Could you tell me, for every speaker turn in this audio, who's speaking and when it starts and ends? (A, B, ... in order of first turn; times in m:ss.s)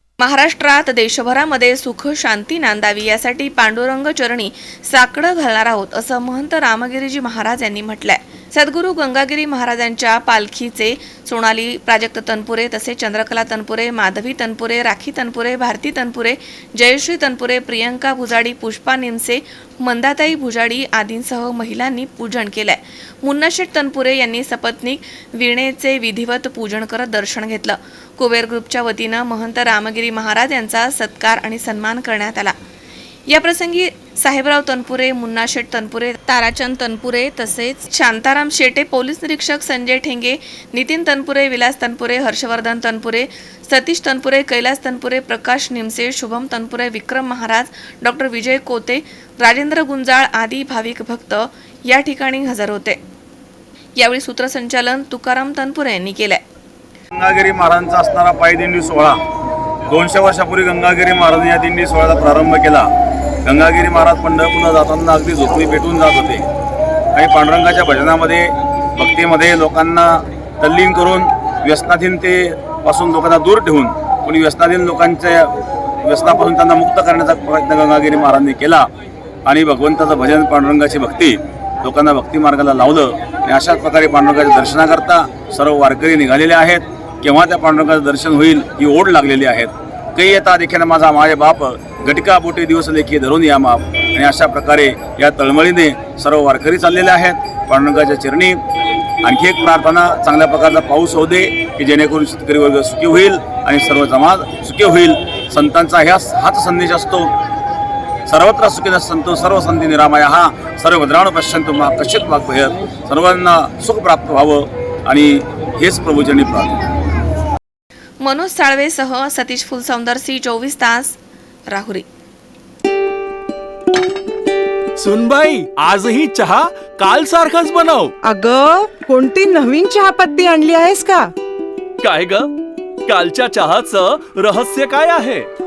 0:00.2-0:32.6 A
0:33.3-0:53.0 A
0:54.0-0:56.4 A
0:57.1-0:59.2 B
0:59.9-1:02.9 B
1:03.4-1:06.5 B
1:07.1-1:15.5 B
1:16.0-1:18.9 B
1:19.5-1:38.6 B
1:39.2-1:47.3 B
1:48.3-1:56.7 B
1:58.2-2:01.2 A
2:01.7-2:02.0 A
2:05.0-2:08.1 C
2:08.2-2:11.3 D
2:12.0-2:12.5 C
2:13.1-2:15.5 C